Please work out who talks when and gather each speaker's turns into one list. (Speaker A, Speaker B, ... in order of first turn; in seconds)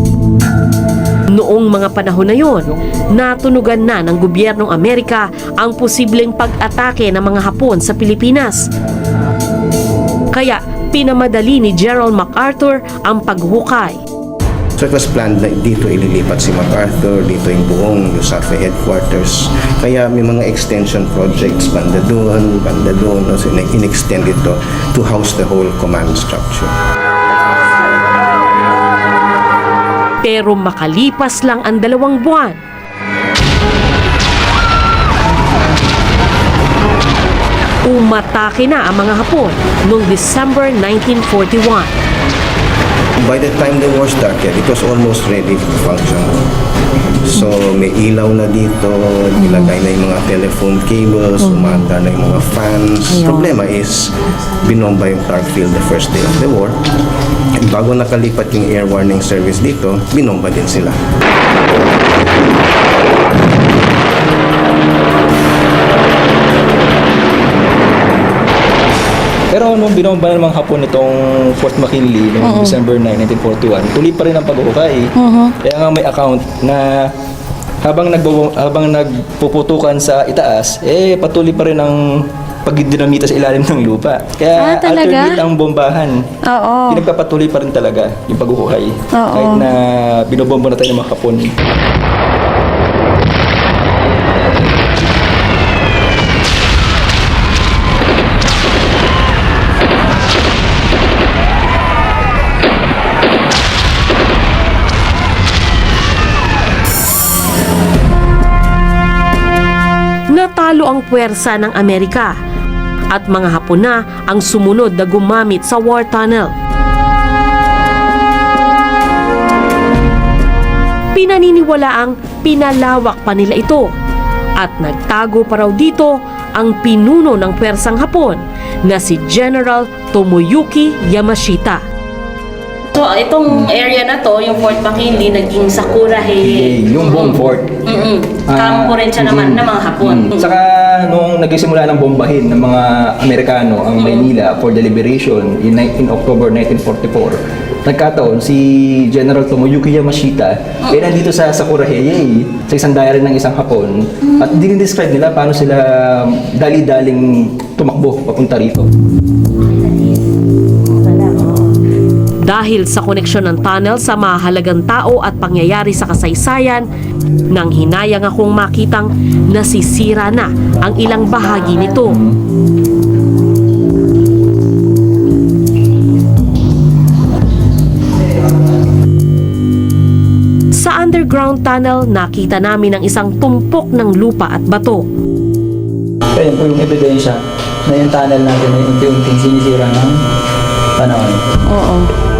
Speaker A: 1.3-8.7, 10.3-14.0, 30.2-32.6, 37.9-41.9, 110.3-112.3, 113.1-116.5, 121.1-123.9, 124.6-131.8, 162.4-166.9, 167.5-172.2, 180.8-185.1
Speaker B: 14.8-26.7, 43.2-46.4, 47.3-56.8, 57.5-61.0
Speaker C: 49.4-49.7, 51.4-51.8, 53.1-53.5, 72.4-72.7, 75.2-75.5, 84.5-85.4, 86.5-87.1, 89.1-89.7, 132.9-140.5, 144.0-144.2, 159.6-160.2, 160.9-161.7, 191.7-192.1
Speaker D: 69.5-75.1, 75.6-77.1, 77.8-82.0, 82.6-86.2, 86.9-91.5, 136.4-137.7, 138.5-158.9
Speaker E: 186.3-190.2, 191.0-191.4